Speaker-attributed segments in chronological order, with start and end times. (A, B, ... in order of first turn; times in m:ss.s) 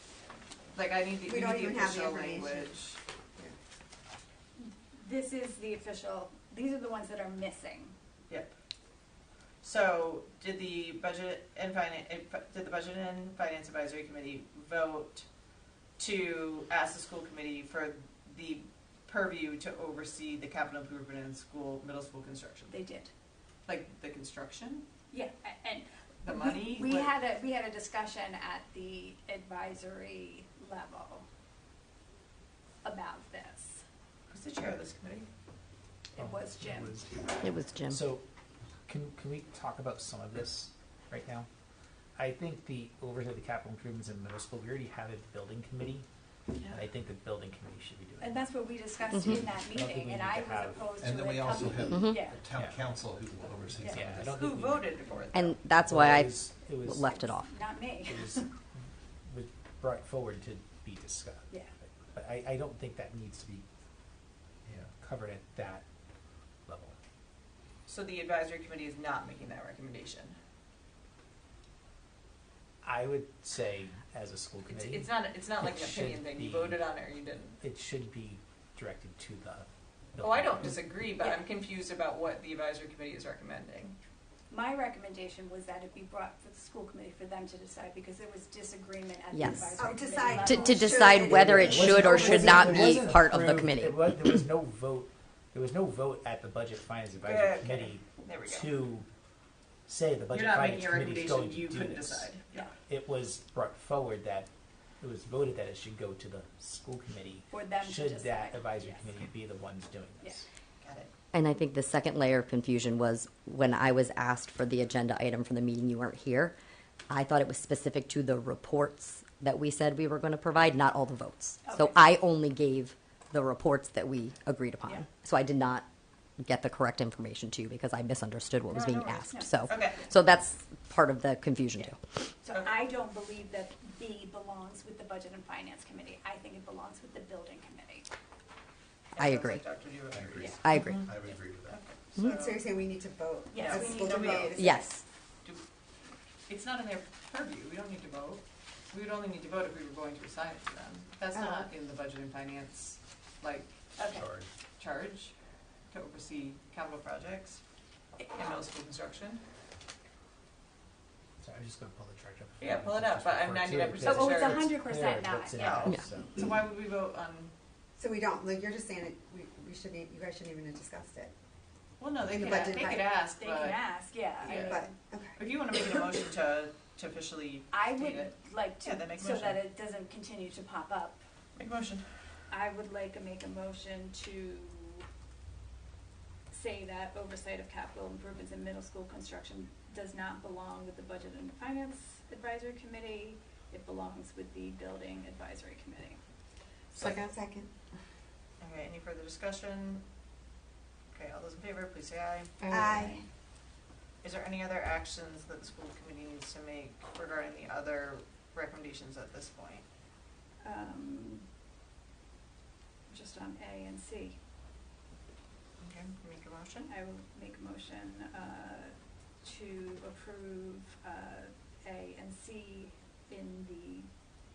0:00.7-0:03.0 A
0:01.2-0:02.8 B
0:04.9-0:08.0 C
0:09.6-0:15.3 A
0:16.0-0:22.7 A
0:22.7-0:23.1 C
0:23.7-0:24.8 A
0:25.1-0:31.2 C
0:26.2-0:27.1 A
0:32.8-0:33.8 C
0:34.3-0:35.3 A
0:36.1-0:37.2 C
0:36.2-0:37.3 D
0:37.4-0:38.1 E
0:37.9-0:38.2 D
0:38.9-0:41.5 D
0:42.2-0:46.0 D
0:46.7-0:48.5 D
0:48.2-0:52.4 C
0:49.1-0:49.4 E
0:49.2-0:51.0 D
0:51.0-0:54.4 F
0:51.9-0:52.3 E
0:52.6-0:52.9 D
0:53.8-0:54.9 D
0:54.2-0:55.6 A
0:55.3-0:57.5 E
0:55.8-0:57.1 D
0:57.1-0:58.5 C
0:58.0-0:58.5 D
0:59.2-1:03.6 D
1:04.8-1:05.8 D
1:06.7-1:07.0 D
1:07.9-1:10.3 A
1:12.8-1:16.9 D
1:14.7-1:17.6 A
1:17.6-1:20.9 D
1:20.2-1:24.0 A
1:24.5-1:31.6 C
1:29.3-1:29.8 E
1:29.8-1:32.9 B
1:30.4-1:34.3 E
1:31.3-1:39.1 D
1:37.2-1:38.8 A
1:39.9-1:42.3 D
1:40.3-1:42.7 A
1:42.9-1:50.5 D
1:47.5-1:49.1 C
1:50.8-1:51.1 A
1:51.3-1:56.6 E
1:57.1-2:05.8 E
2:01.6-2:02.0 C
2:06.4-2:12.2 E
2:08.7-2:10.0 A
2:09.3-2:10.0 C
2:12.4-2:18.1 C
2:19.2-2:19.6 E
2:19.2-2:22.7 A
2:20.1-2:21.8 F
2:20.5-2:21.1 E
2:22.2-2:24.8 B
2:23.5-2:24.6 C
2:23.6-2:24.8 A
2:24.6-2:25.0 E
2:26.5-2:33.7 A
2:31.3-2:31.7 B
2:34.0-2:34.3 C
2:34.1-2:34.5 F
2:34.8-2:35.3 A
2:35.9-2:37.6 A
2:38.2-2:38.6 C
2:38.3-2:39.4 A
2:41.4-2:46.4 D
2:42.6-2:44.7 A
2:44.0-2:45.6 C
2:45.6-2:47.5 A
2:48.0-2:51.3 B
2:52.0-2:53.9 A
2:52.2-2:53.1 B
2:52.4-2:54.9 C
2:54.4-2:54.8 A
2:54.5-2:56.0 B
2:55.4-2:59.6 A
2:57.7-3:01.2 C
3:01.6-3:02.1 A
3:02.5-3:05.1 C
3:06.5-3:16.2 C
3:17.0-3:17.7 B
3:18.6-3:20.0 A
3:21.1-3:23.1 A
3:22.7-3:23.2 B
3:22.7-3:23.2 C
3:24.2-3:29.8 A
3:30.6-3:31.5 C
3:33.1-3:34.4 C
3:35.8-3:36.9 A
3:36.9-3:44.1 C